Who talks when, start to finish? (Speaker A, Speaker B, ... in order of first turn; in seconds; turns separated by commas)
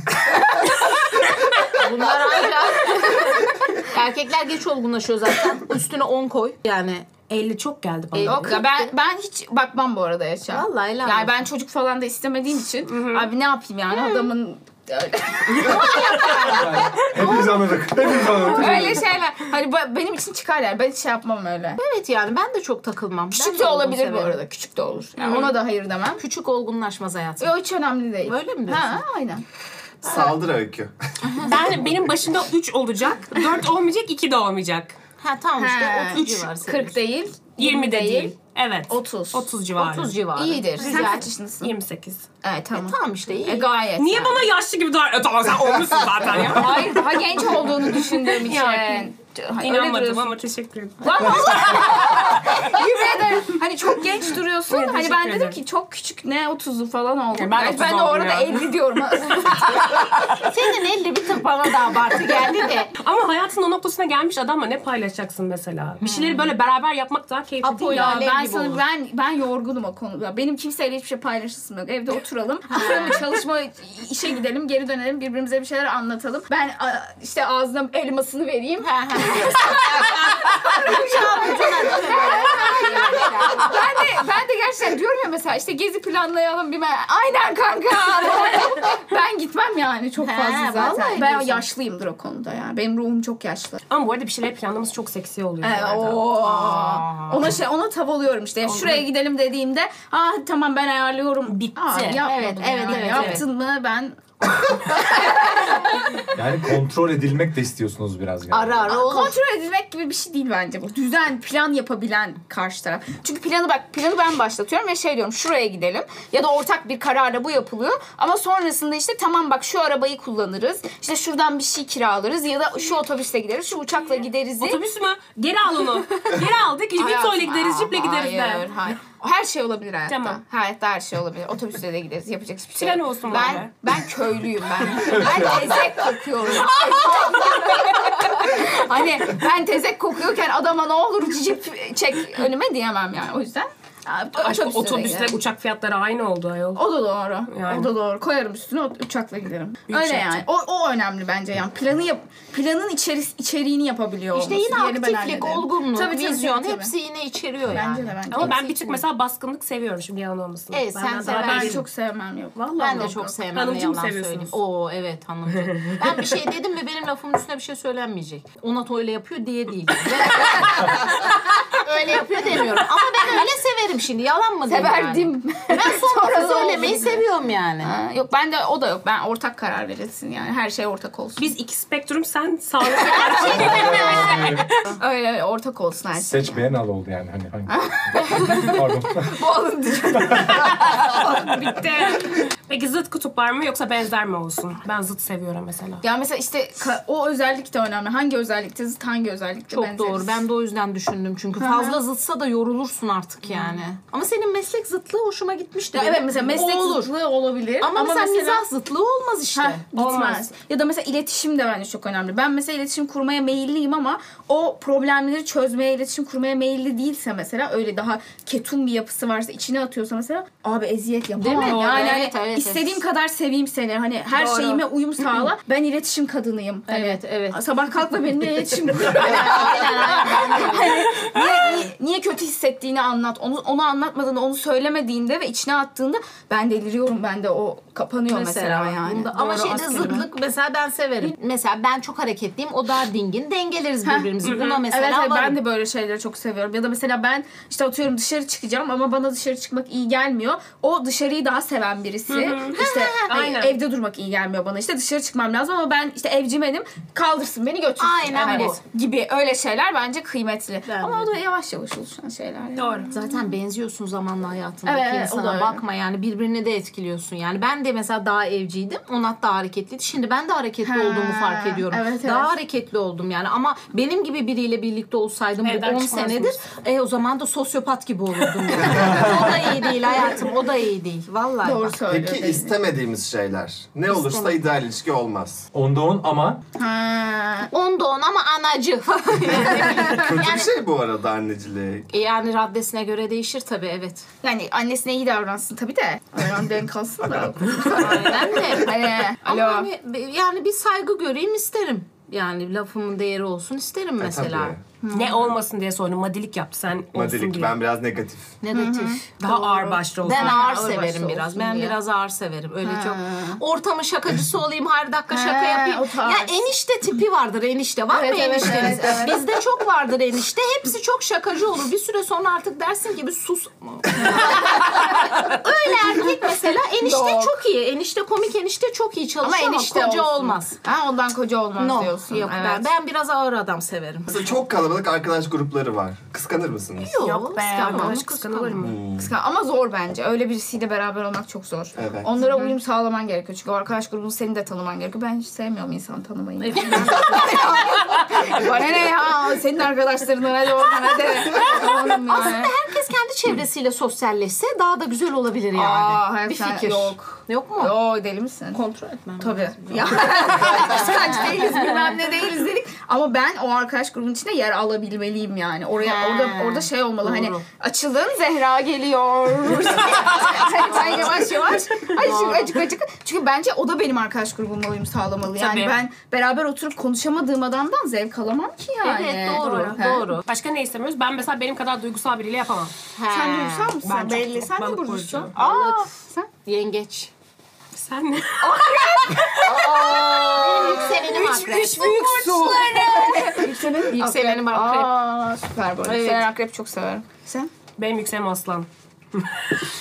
Speaker A: 1.7-7.1, Speaker B: 2.2-3.3, Speaker C: 7.3-8.6, Speaker A: 8.1-8.9, Speaker B: 8.2-17.3, Speaker A: 10.5-11.4, Speaker C: 12.9-13.3, Speaker D: 16.4-19.1, Speaker A: 18.4-18.9, Speaker B: 18.4-21.8, Speaker A: 21.8-24.4, Speaker B: 23.3-26.2, Speaker A: 25.2-25.6, Speaker A: 26.2-27.5, Speaker B: 27.4-29.4, Speaker A: 28.2-29.0, Speaker E: 30.0-31.5, Speaker C: 31.4-35.0, Speaker A: 35.2-37.0, Speaker B: 35.6-38.3, Speaker C: 37.6-40.1, Speaker B: 38.9-39.5, Speaker A: 39.8-41.3, Speaker B: 40.3-41.7, Speaker C: 40.8-42.2, Speaker B: 42.4-44.4, Speaker A: 42.7-43.7, Speaker C: 44.0-47.0, Speaker B: 46.3-50.3, Speaker C: 48.0-52.8, Speaker B: 51.0-60.5, Speaker C: 54.7-55.6, Speaker C: 57.3-58.7, Speaker A: 60.3-62.9, Speaker C: 63.0-68.2, Speaker A: 66.0-66.5, Speaker A: 67.6-68.8, Speaker B: 67.9-93.8, Speaker A: 72.7-73.2, Speaker A: 78.8-83.8, Speaker A: 90.2-91.7, Speaker C: 93.9-96.3, Speaker B: 95.6-106.2, Speaker A: 96.4-97.5, Speaker C: 98.7-99.0, Speaker C: 101.5-102.2, Speaker A: 101.9-103.4, Speaker C: 102.8-103.4, Speaker D: 106.3-108.9, Speaker A: 108.5-109.4, Speaker B: 108.8-124.8, Speaker C: 124.6-128.7, Speaker B: 127.0-145.3, Speaker C: 130.1-130.4, Speaker C: 132.8-133.7, Speaker C: 144.4-146.8, Speaker B: 146.8-156.9, Speaker C: 147.5-147.9, Speaker C: 149.9-150.4, Speaker A: 154.3-159.0, Speaker B: 157.7-158.7, Speaker C: 158.3-161.8, Speaker A: 160.7-161.8, Speaker B: 161.2-163.3, Speaker C: 162.6-164.5, Speaker A: 162.8-177.9, Speaker C: 165.6-166.2, Speaker B: 174.7-177.2, Speaker B: 177.8-181.5, Speaker C: 181.4-184.8, Speaker B: 183.0-186.6, Speaker D: 183.4-184.7, Speaker D: 186.2-189.3, Speaker B: 187.7-192.4, Speaker C: 192.1-196.0, Speaker B: 196.0-200.4, Speaker A: 199.7-207.1, Speaker B: 201.6-202.0, Speaker B: 205.9-208.6, Speaker A: 207.8-209.8, Speaker B: 209.5-240.3, Speaker C: 209.9-210.5, Speaker A: 221.3-223.0, Speaker C: 224.4-224.8, Speaker A: 224.4-224.8, Speaker A: 226.9-227.6, Speaker A: 229.2-231.1, Speaker A: 238.3-245.6, Speaker B: 244.0-244.3, Speaker C: 244.4-244.8, Speaker B: 244.9-263.3, Speaker C: 252.3-253.8, Speaker A: 252.7-253.3, Speaker A: 258.0-258.8, Speaker A: 260.9-261.3, Speaker C: 262.8-263.1, Speaker A: 263.1-282.0, Speaker B: 264.9-265.8, Speaker B: 270.8-272.5, Speaker C: 275.6-276.6, Speaker D: 278.9-279.5, Speaker B: 281.6-282.8, Speaker E: 282.1-285.6, Speaker A: 284.1-284.6, Speaker D: 285.7-286.6, Speaker B: 286.8-287.7, Speaker A: 287.7-290.7, Speaker B: 289.8-290.1, Speaker E: 290.0-292.1, Speaker A: 292.1-294.2, Speaker B: 294.4-299.9, Speaker A: 297.8-304.8, Speaker E: 304.2-304.8, Speaker B: 305.0-305.4, Speaker C: 305.1-307.7, Speaker E: 307.1-308.6, Speaker A: 308.6-330.8, Speaker B: 308.7-309.2, Speaker C: 309.4-310.6, Speaker B: 310.2-312.0, Speaker B: 312.8-313.6, Speaker B: 315.3-316.6, Speaker B: 318.1-319.6, Speaker B: 324.5-324.7, Speaker B: 327.0-327.6, Speaker B: 329.4-332.9, Speaker A: 331.8-334.3, Speaker E: 334.3-337.2, Speaker A: 337.0-338.8, Speaker C: 337.2-339.0, Speaker B: 337.6-352.7, Speaker E: 338.8-339.3, Speaker E: 342.0-342.3, Speaker A: 346.6-347.9, Speaker A: 351.5-358.0, Speaker B: 355.7-358.8, Speaker A: 358.7-362.1, Speaker B: 359.4-380.2, Speaker A: 366.0-367.5, Speaker C: 367.2-367.5, Speaker A: 370.9-371.2, Speaker A: 372.2-372.8, Speaker C: 375.6-375.9, Speaker A: 379.0-380.4, Speaker C: 380.4-382.9, Speaker A: 383.1-383.9, Speaker B: 383.3-386.5, Speaker C: 384.0-385.5, Speaker A: 385.5-387.3, Speaker C: 387.9-390.0, Speaker B: 388.6-397.7, Speaker E: 389.5-391.0, Speaker A: 390.5-392.4, Speaker C: 391.2-393.4, Speaker A: 393.3-395.2, Speaker A: 396.0-396.5, Speaker C: 398.0-399.5